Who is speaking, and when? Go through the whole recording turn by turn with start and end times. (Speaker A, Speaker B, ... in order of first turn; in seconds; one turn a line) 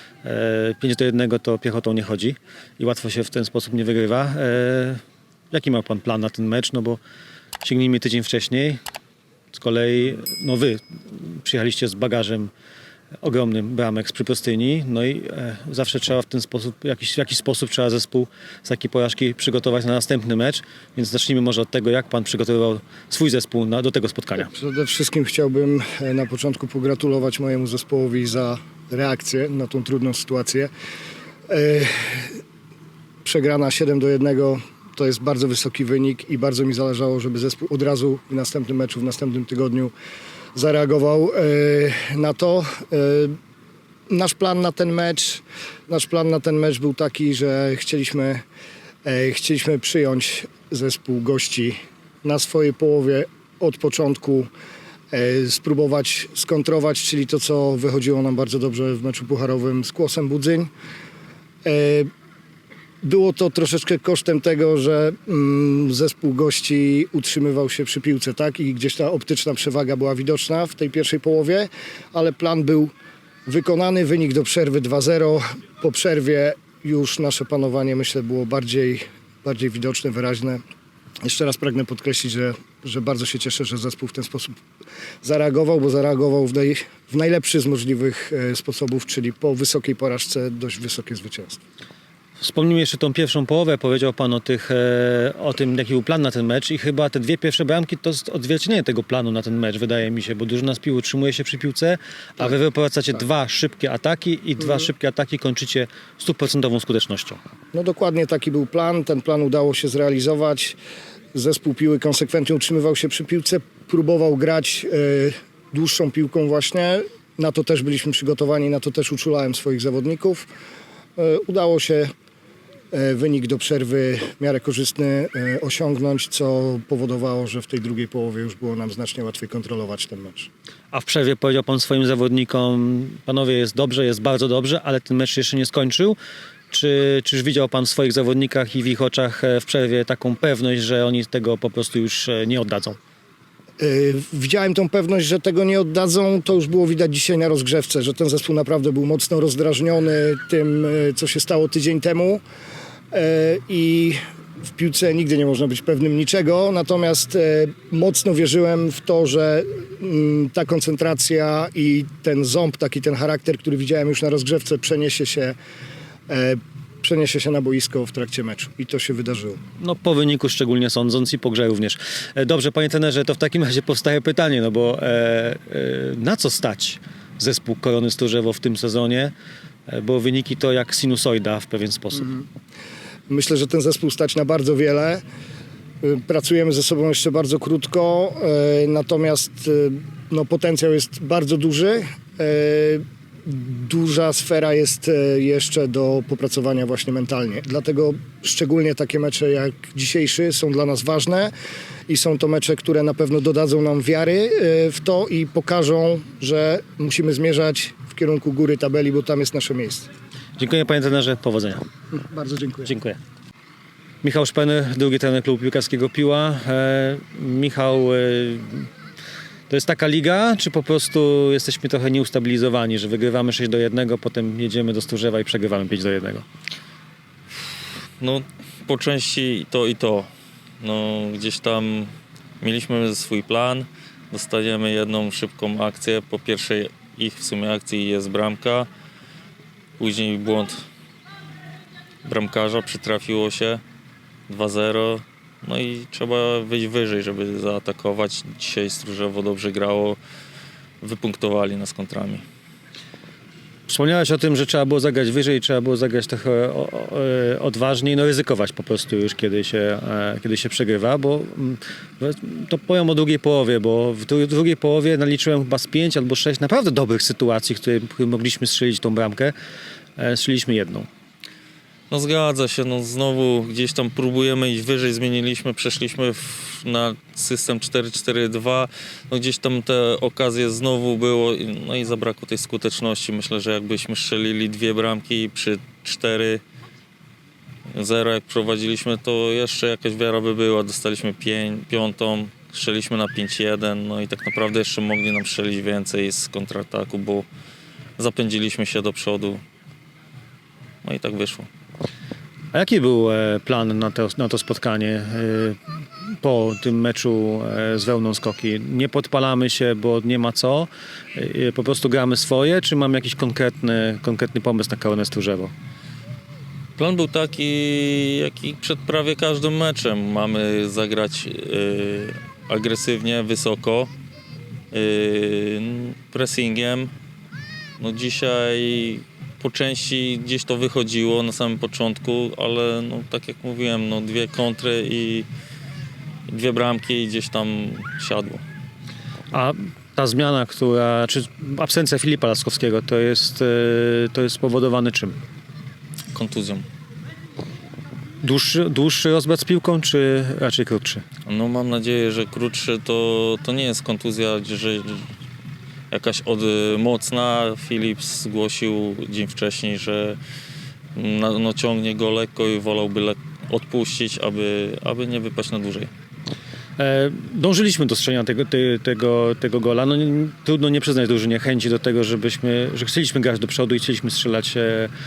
Speaker A: 0.2-7.0
Speaker A: 7.6-8.8
Speaker A: 9.5-12.5
Speaker A: 13.2-24.5
Speaker B: 24.4-30.7
Speaker B: 31.5-32.4
Speaker B: 33.2-39.9
Speaker B: 40.5-43.4
Speaker B: 44.1-48.4
Speaker B: 49.0-54.5
Speaker B: 55.1-60.7
Speaker B: 61.6-62.1
Speaker B: 63.0-72.9
Speaker B: 73.5-80.6
Speaker B: 81.2-84.6
Speaker B: 85.2-91.6
Speaker A: 92.4-107.4
Speaker B: 107.7-110.8
Speaker B: 111.3-120.5
Speaker B: 121.2-122.1
Speaker B: 122.9-130.5
Speaker A: 130.9-136.2
Speaker A: 136.7-143.0
Speaker B: 143.8-152.4
Speaker B: 153.1-154.2
Speaker B: 154.7-165.5
Speaker B: 166.3-169.6
Speaker A: 169.8-179.3
Speaker A: 179.9-182.3
Speaker B: 182.1-182.4
Speaker B: 183.3-185.2
Speaker B: 186.0-201.5
Speaker B: 202.1-210.1
Speaker A: 210.6-211.8
Speaker B: 212.1-212.9
Speaker A: 212.8-213.2
Speaker A: 214.2-218.9
Speaker A: 219.7-226.4
Speaker C: 228.2-230.3
Speaker C: 230.8-238.9
Speaker C: 240.0-240.8
Speaker C: 242.2-243.8
Speaker C: 244.5-250.2
Speaker C: 251.0-252.4
Speaker A: 253.9-269.5
Speaker A: 270.2-271.1
Speaker C: 272.1-286.6
Speaker C: 287.9-297.4
Speaker C: 298.2-299.6
Speaker C: 301.0-301.7
Speaker A: 302.7-305.8
Speaker A: 306.4-315.7
Speaker C: 317.0-324.1
Speaker C: 324.9-327.1
Speaker C: 328.0-335.4
Speaker C: 336.5-338.6
Speaker A: 339.5-345.4
Speaker C: 346.3-346.8
Speaker A: 348.4-351.2
Speaker C: 351.4-355.2
Speaker C: 356.1-360.4
Speaker C: 361.1-366.1
Speaker A: 367.0-375.1